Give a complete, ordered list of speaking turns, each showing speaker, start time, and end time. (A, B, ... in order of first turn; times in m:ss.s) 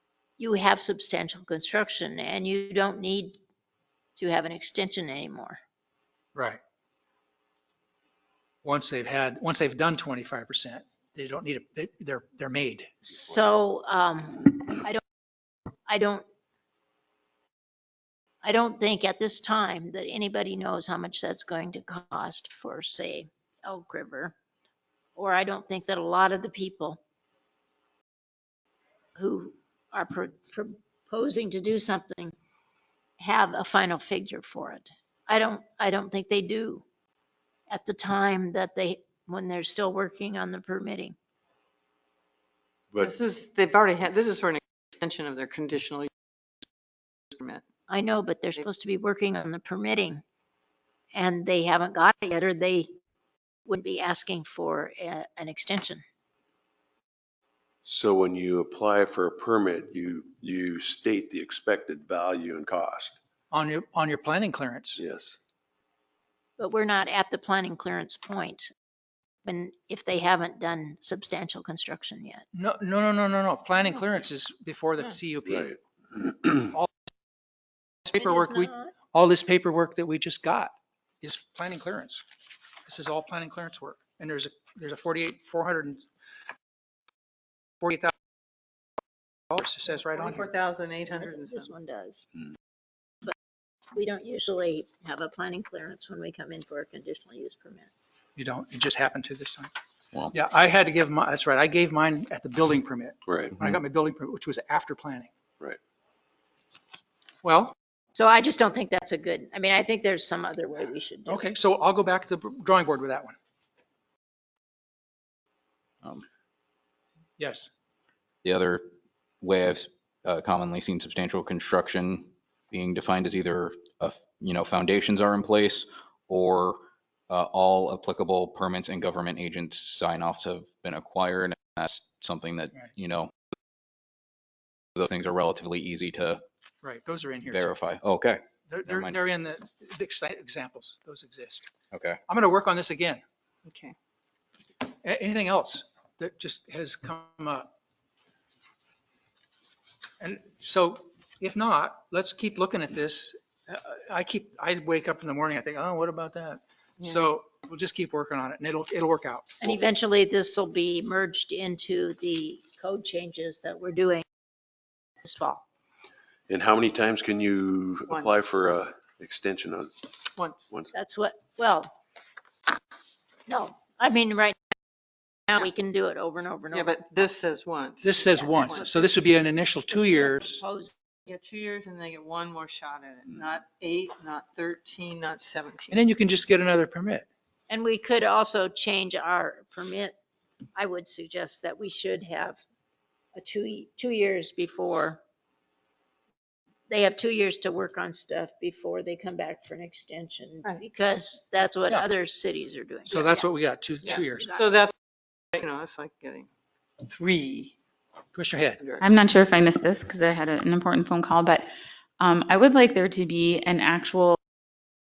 0:00.4-0:03.4 A
0:04.2-0:05.6 A
0:06.3-0:06.6 B
0:08.6-0:12.9 B
0:13.0-0:15.0 A
0:15.9-0:16.2 A
0:18.4-0:24.4 A
0:25.2-0:27.0 A
0:29.2-0:32.3 A
0:33.2-0:36.8 A
0:37.7-0:41.1 A
0:43.0-0:46.1 C
0:47.3-0:47.6 C
0:47.9-0:50.2 A
0:51.1-0:52.9 A
0:53.6-0:56.0 A
0:57.8-1:03.2 D
1:03.5-1:05.0 B
1:05.0-1:05.4 D
1:06.6-1:08.7 A
1:09.4-1:12.4 A
1:12.5-1:15.7 B
1:18.0-1:22.2 B
1:18.1-1:18.9 A
1:22.9-1:26.1 B
1:27.8-1:28.1 B
1:29.5-1:30.5 B
1:30.0-1:31.7 C
1:31.1-1:32.3 A
1:33.9-1:37.9 A
1:38.4-1:39.7 B
1:40.3-1:45.3 B
1:47.4-1:47.7 B
1:48.1-1:51.4 A
1:51.3-1:53.4 B
1:57.4-1:57.7 B
1:58.4-1:58.9 E
1:59.4-2:13.3 E
2:15.0-2:16.4 E
2:16.8-2:17.8 B
2:17.5-2:19.2 E
2:18.7-2:21.7 B
2:21.9-2:22.2 E
2:22.3-2:23.2 B
2:23.7-2:24.0 C
2:25.0-2:27.7 B
2:30.2-2:39.7 B
2:39.6-2:44.2 A
2:45.2-2:45.6 A
2:46.5-2:50.1 D
2:48.1-2:48.8 C
2:50.4-2:50.8 C
2:50.9-2:51.9 A
2:53.5-2:54.7 A
2:55.5-2:57.3 A
2:56.7-2:58.9 C
2:58.0-3:00.6 B
2:58.3-2:59.3 A
2:59.9-3:00.9 A
3:01.3-3:06.0 C
3:05.9-3:07.3 B
3:07.7-3:10.1 A
3:10.8-3:12.6 A
3:13.3-3:15.2 A
3:16.9-3:23.5 A
3:23.1-3:24.5 B
3:24.0-3:24.9 C
3:24.4-3:24.7 A
3:25.5-3:26.5 C
3:27.0-3:27.7 C
3:28.3-3:28.8 B
3:29.0-3:34.4 F